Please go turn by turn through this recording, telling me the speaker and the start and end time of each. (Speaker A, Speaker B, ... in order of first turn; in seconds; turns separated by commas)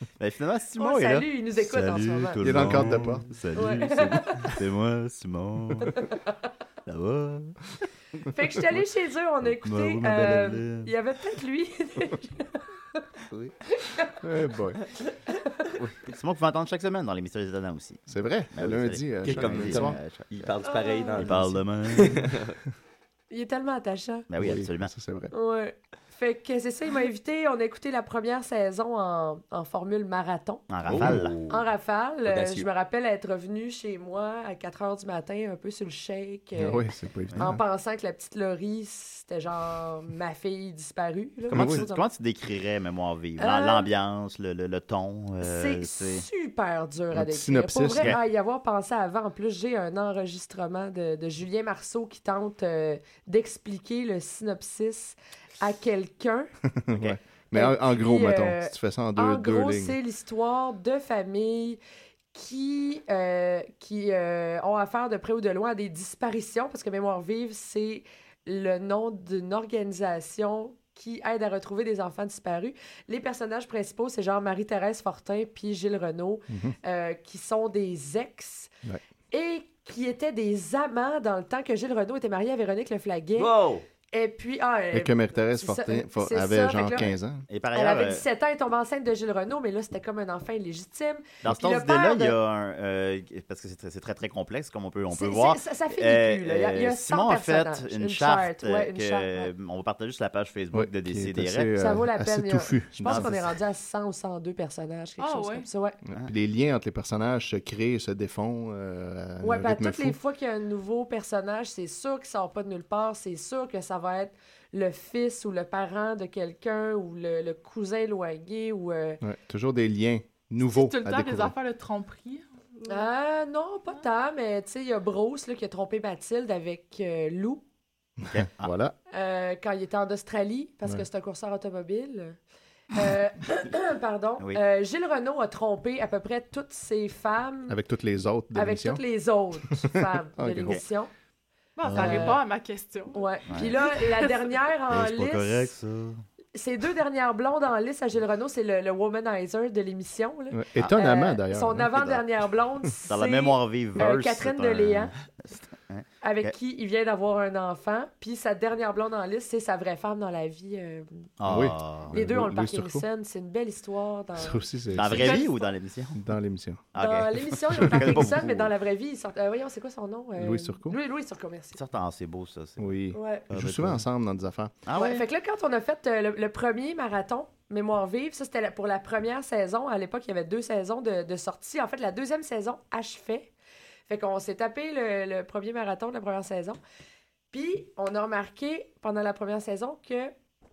Speaker A: 0.2-6.1, Speaker B: 0.8-2.9, Speaker C: 2.4-3.3, Speaker B: 3.5-4.5, Speaker B: 5.9-6.1, Speaker A: 6.9-7.6, Speaker B: 8.3-12.6, Speaker A: 9.6-10.9, Speaker B: 13.8-14.2, Speaker C: 14.2-14.8, Speaker B: 15.3-15.7, Speaker A: 15.8-18.0, Speaker C: 18.1-20.0, Speaker A: 18.5-20.5, Speaker D: 19.2-22.5, Speaker B: 20.7-21.2, Speaker A: 21.2-22.3, Speaker B: 23.3-24.3, Speaker A: 24.3-24.9, Speaker C: 24.4-25.3, Speaker B: 25.3-30.7, Speaker A: 30.7-31.4, Speaker D: 30.9-31.6, Speaker B: 31.5-36.8, Speaker D: 32.3-32.7, Speaker C: 36.6-37.6, Speaker B: 37.4-42.0, Speaker A: 41.5-46.2, Speaker C: 41.5-41.8, Speaker B: 43.4-43.9, Speaker B: 45.4-56.5, Speaker C: 47.1-48.2, Speaker C: 56.8-60.0, Speaker B: 57.5-61.8, Speaker B: 62.3-78.7, Speaker C: 76.5-76.8, Speaker B: 79.3-83.5, Speaker D: 83.4-83.8, Speaker B: 84.1-87.2, Speaker C: 84.9-87.5, Speaker A: 87.5-88.2, Speaker B: 87.7-92.4, Speaker A: 91.4-101.8, Speaker B: 95.1-99.5, Speaker C: 100.7-103.3, Speaker B: 101.8-106.0, Speaker A: 103.0-103.5, Speaker E: 105.2-105.7, Speaker C: 106.1-110.2, Speaker B: 109.4-119.2, Speaker C: 119.2-121.5, Speaker E: 120.6-123.1, Speaker B: 122.9-127.6, Speaker C: 128.2-128.9, Speaker A: 128.3-128.7, Speaker B: 129.1-132.4, Speaker B: 132.9-137.8, Speaker C: 137.7-139.0, Speaker B: 138.6-141.1, Speaker C: 139.9-140.8, Speaker E: 141.8-144.4, Speaker A: 141.8-142.4, Speaker B: 141.9-142.4, Speaker B: 143.1-145.7, Speaker A: 143.5-143.8, Speaker A: 144.9-146.2, Speaker B: 146.6-155.1, Speaker C: 150.5-152.1, Speaker A: 151.9-152.2, Speaker A: 153.1-156.5, Speaker B: 156.2-161.1, Speaker A: 161.4-162.2, Speaker C: 161.5-163.1, Speaker B: 162.1-164.6, Speaker C: 164.4-165.4, Speaker A: 164.9-166.2, Speaker E: 165.1-165.7, Speaker C: 166.1-166.8, Speaker A: 166.9-168.7, Speaker B: 167.0-171.8, Speaker C: 167.8-168.3, Speaker C: 170.4-171.0, Speaker A: 171.8-172.9, Speaker C: 172.8-174.8, Speaker B: 173.1-173.5, Speaker A: 173.5-174.0, Speaker A: 174.9-175.2, Speaker B: 174.9-183.5, Speaker B: 184.1-186.8, Speaker B: 187.5-190.3